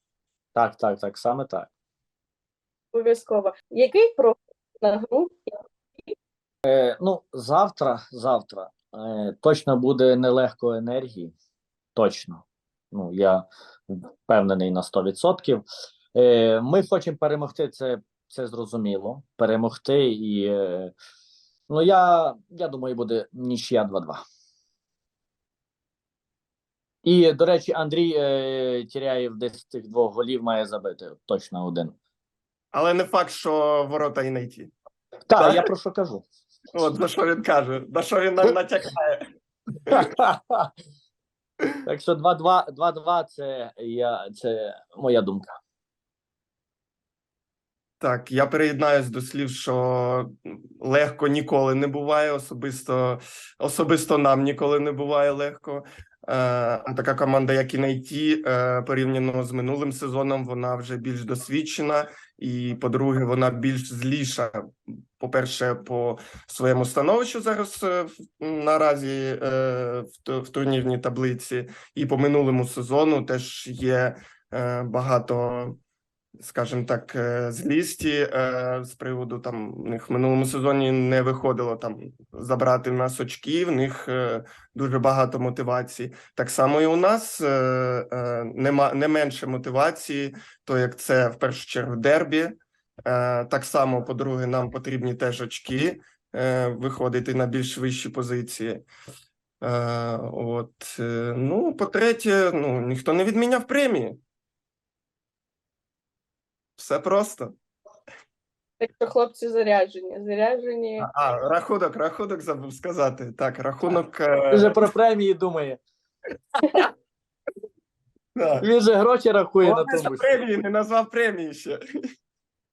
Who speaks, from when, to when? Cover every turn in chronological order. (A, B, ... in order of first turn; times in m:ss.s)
0:00.5-0:01.7 A
0:02.9-0:05.5 B
0:06.6-0:11.4 A
0:11.9-0:20.9 A
0:21.7-0:24.2 A
0:27.0-0:31.9 A
0:32.7-0:34.7 C
0:35.3-0:36.2 A
0:35.4-0:35.7 C
0:36.7-0:39.2 C
0:39.9-0:40.7 A
0:41.8-0:45.6 A
0:48.0-1:15.8 C
1:16.4-1:38.9 C
1:39.6-1:44.2 C
1:46.8-1:47.5 C
1:48.8-1:51.1 B
1:51.0-1:54.8 C
1:54.5-1:55.8 A
1:58.4-1:58.6 C
1:58.6-2:00.4 A
1:59.6-2:01.8 C